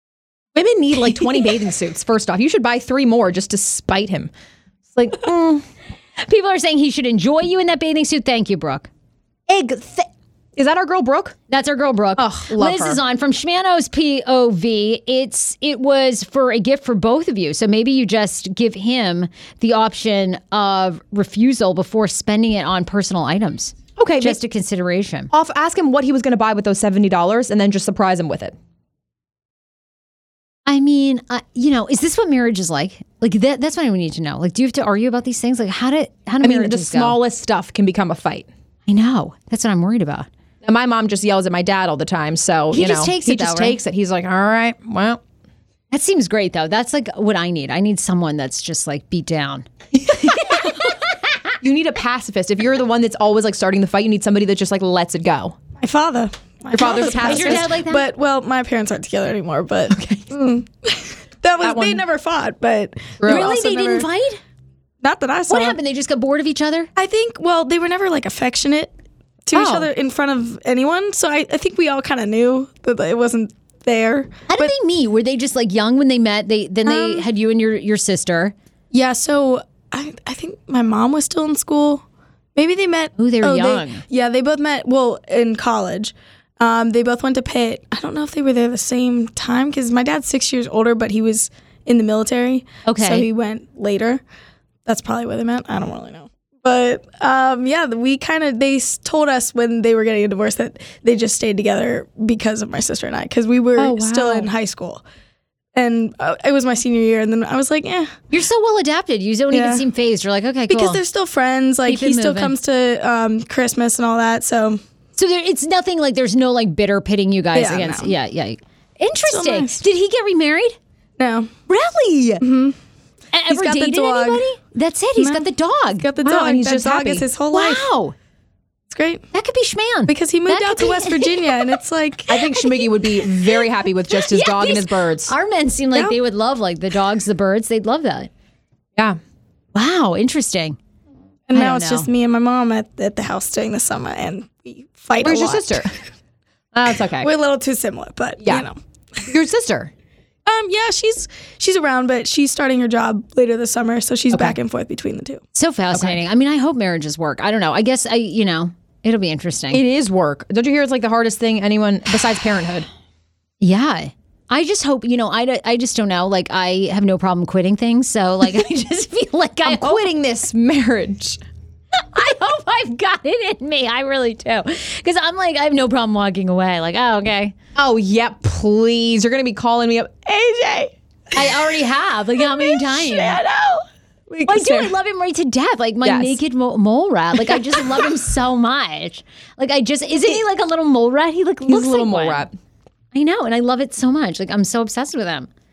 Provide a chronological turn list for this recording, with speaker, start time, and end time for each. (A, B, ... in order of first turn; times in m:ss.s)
0:00.5-0:04.3 A
0:04.9-0:05.6 A
0:06.2-0:08.9 B
0:09.5-0:11.4 A
0:11.5-0:25.3 B
0:12.2-0:13.0 A
0:24.0-0:24.4 A
0:25.3-0:28.6 A
0:30.6-0:37.2 B
0:36.4-0:38.5 A
0:38.9-0:40.3 B
0:40.6-0:45.2 A
0:42.7-0:43.8 B
0:45.9-0:49.7 B
0:50.2-0:50.9 B
0:51.6-0:55.6 A
0:55.8-1:04.1 C
0:56.7-0:57.7 A
0:56.9-0:58.0 B
0:59.9-1:00.3 A
1:01.6-1:02.0 A
1:03.2-1:03.5 A
1:03.2-1:04.4 B
1:05.0-1:05.8 C
1:05.5-1:06.9 B
1:07.0-1:08.9 C
1:09.4-1:14.7 C
1:09.5-1:09.9 B
1:14.5-1:18.5 B
1:16.9-1:17.2 C
1:18.9-1:22.0 C
1:22.6-1:34.2 C
1:23.2-1:24.0 B
1:32.8-1:33.2 B
1:34.8-1:45.0 C
1:43.8-1:44.5 A
1:45.7-1:48.2 C
1:48.3-1:51.0 B
1:49.5-1:49.8 C
1:50.7-1:54.8 C
1:51.8-1:52.5 B
1:55.2-2:00.8 B
1:57.5-1:58.1 C
1:59.3-1:59.8 C
2:01.2-2:01.5 C
2:01.7-2:02.4 B
2:02.4-2:02.8 C
2:03.3-2:06.0 B
2:03.5-2:04.4 C
2:05.2-2:05.5 C
2:06.0-2:07.9 C
2:06.2-2:07.2 A
2:07.5-2:08.1 B
2:08.9-2:09.2 C
2:09.3-2:11.8 B
2:10.1-2:12.4 C
2:12.3-2:15.3 A
2:12.4-2:13.3 B
2:14.1-2:18.3 B
2:19.7-2:20.8 B
2:21.5-2:26.0 C
2:21.5-2:22.1 B
2:25.2-2:25.9 A
2:26.7-2:27.3 A
2:27.2-2:28.8 C
2:28.4-2:28.7 A
2:29.3-2:29.9 A
2:30.4-2:35.4 C
2:34.3-2:34.6 A
2:35.6-2:39.8 B
2:39.7-2:42.9 A
2:43.6-2:50.0 B
2:49.6-2:51.4 A
2:52.0-2:57.5 B
2:57.8-3:00.4 A
3:00.4-3:00.9 C
3:01.3-3:03.4 B
3:02.4-3:03.8 C
3:04.3-3:04.9 A
3:04.4-3:12.4 B
3:06.0-3:06.4 A
3:11.6-3:12.5 A
3:13.1-3:15.5 B